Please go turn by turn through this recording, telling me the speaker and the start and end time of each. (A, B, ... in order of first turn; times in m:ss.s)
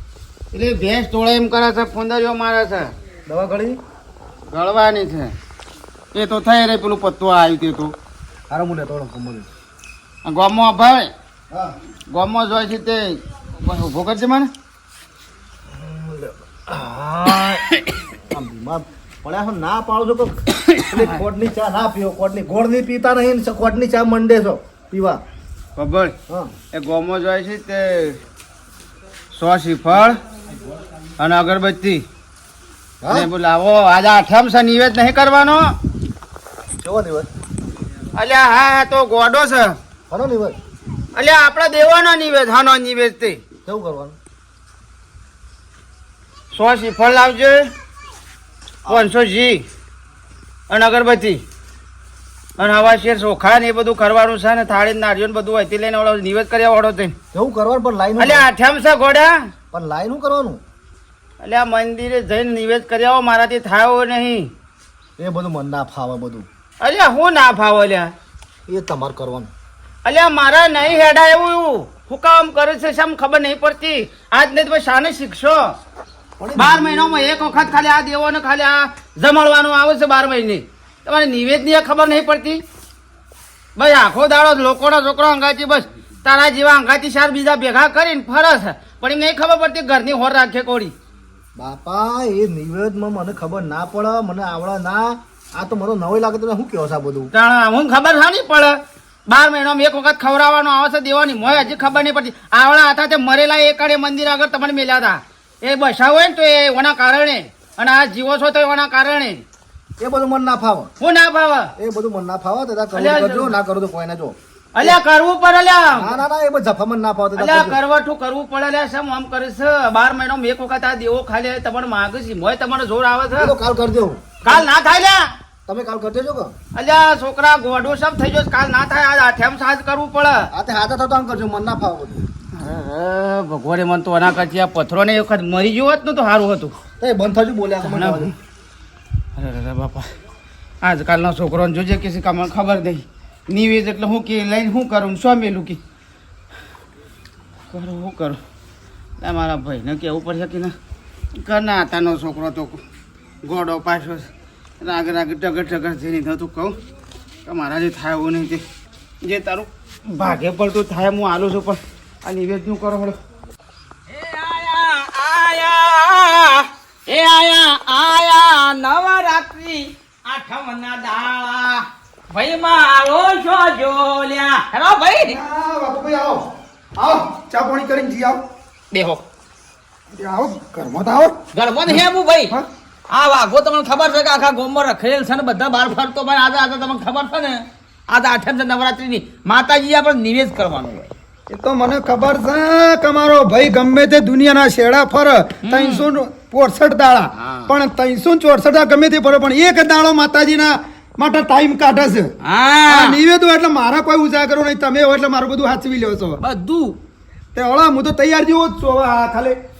0:00.5-0:02.9 A
0:03.3-0:03.8 B
0:04.5-0:05.3 A
0:06.1-0:07.9 A
0:08.5-0:09.5 B
0:10.2-0:11.1 A
0:12.1-0:14.5 A
0:15.7-0:17.7 B
0:18.3-0:25.2 B
0:25.8-0:26.2 A
0:26.3-0:26.5 B
0:26.7-0:28.2 A
0:29.3-0:30.2 A
0:31.2-0:32.0 A
0:33.0-0:33.3 B
0:33.1-0:35.7 A
0:36.8-0:37.3 B
0:38.2-0:39.8 A
0:40.1-0:40.6 B
0:41.1-0:43.4 A
0:43.6-0:44.2 B
0:46.5-0:47.6 A
0:48.9-0:49.6 A
0:50.7-0:51.4 A
0:52.6-0:57.2 A
0:57.3-0:58.5 B
0:58.2-0:59.3 A
0:59.7-1:00.6 B
1:01.4-1:04.5 A
1:05.2-1:06.5 B
1:06.8-1:08.1 A
1:08.7-1:09.5 B
1:10.0-1:15.8 A
1:16.4-1:16.8 B
1:16.6-1:22.6 A
1:23.8-1:30.9 A
1:31.6-1:37.3 B
1:37.3-1:38.8 A
1:39.3-1:49.4 A
1:50.0-1:50.9 B
1:51.0-1:51.7 A
1:51.8-1:55.0 B
1:52.9-1:53.6 A
1:54.8-1:56.2 A
1:55.9-1:57.8 B
1:57.4-2:03.6 A
2:03.4-2:04.7 B
2:04.4-2:05.2 A
2:05.7-2:06.5 B
2:06.7-2:10.5 A
2:10.5-2:12.2 B
2:12.5-2:16.8 A
2:17.0-2:18.3 B
2:17.8-2:18.3 A
2:19.4-2:20.1 A
2:20.8-2:25.8 A
2:27.7-2:28.4 A
2:29.2-2:30.7 A
2:31.4-2:32.8 A
2:33.4-2:34.3 A
2:34.8-2:36.8 A
2:37.4-2:38.6 A
2:39.2-2:43.2 A
2:44.1-2:55.4 C
2:55.2-2:58.4 D
2:58.9-2:59.2 C
3:00.1-3:01.4 D
3:01.5-3:02.6 C
3:01.9-3:02.7 D
3:03.1-3:11.1 C
3:11.5-3:22.3 D
3:15.6-3:16.1 C
3:17.3-3:17.8 C
3:22.4-3:23.2 C
3:22.8-3:26.4 D
3:26.4-3:27.0 C
3:27.6-3:29.6 D